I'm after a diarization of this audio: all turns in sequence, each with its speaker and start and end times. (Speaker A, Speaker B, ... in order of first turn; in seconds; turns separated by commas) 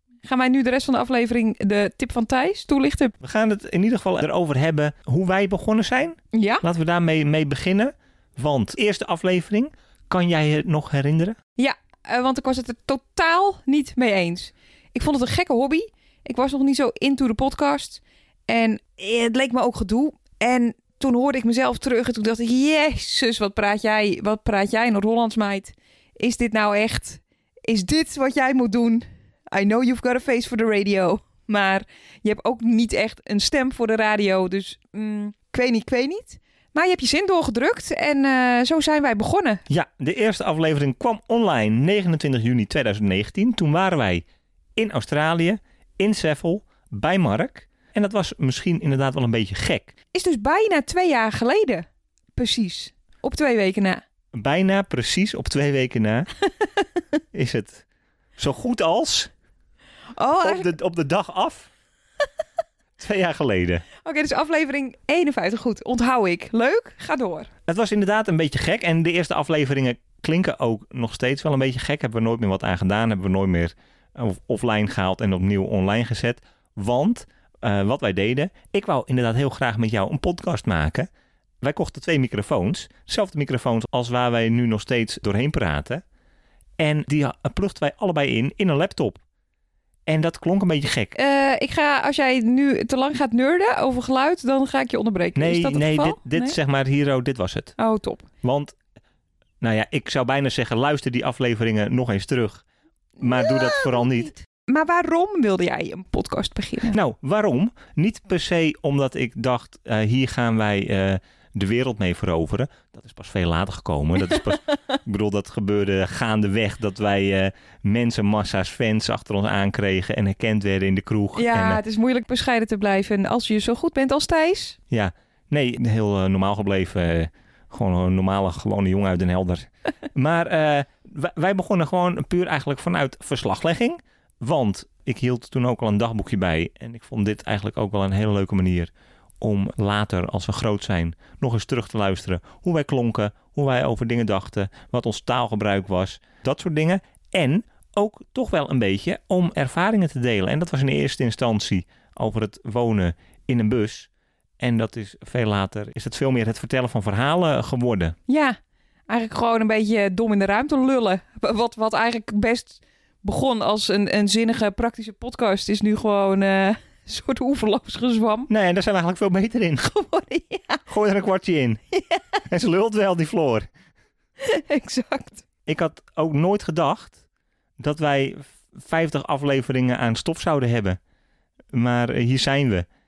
Speaker A: 0.2-3.1, Speaker B: 3.2-11.4, Speaker A: 6.3-6.6, Speaker A: 11.6-39.6, Speaker B: 39.7-44.2, Speaker B: 44.8-49.9, Speaker A: 50.1-51.8, Speaker A: 52.4-54.0, Speaker B: 54.3-56.3, Speaker B: 57.3-57.8, Speaker B: 58.4-59.3, Speaker A: 60.2-60.7, Speaker B: 60.4-61.7, Speaker B: 63.0-63.8, Speaker A: 64.0-67.5, Speaker B: 67.7-81.1, Speaker B: 81.6-86.0, Speaker B: 86.8-89.2, Speaker B: 90.1-91.1, Speaker A: 91.1-96.6, Speaker B: 95.3-97.8, Speaker A: 97.8-98.3, Speaker B: 98.4-98.8, Speaker B: 99.6-102.6, Speaker B: 103.2-104.3, Speaker A: 103.2-107.0, Speaker B: 106.9-121.8, Speaker A: 121.3-124.8, Speaker B: 124.9-154.1, Speaker B: 154.6-158.1, Speaker A: 158.3-158.6, Speaker A: 159.1-168.5, Speaker B: 168.5-169.9, Speaker A: 169.8-170.8, Speaker B: 170.9-171.8, Speaker A: 171.9-172.4, Speaker B: 172.4-173.7, Speaker A: 174.4-175.4, Speaker B: 175.7-177.2, Speaker B: 177.8-181.0, Speaker B: 181.7-182.9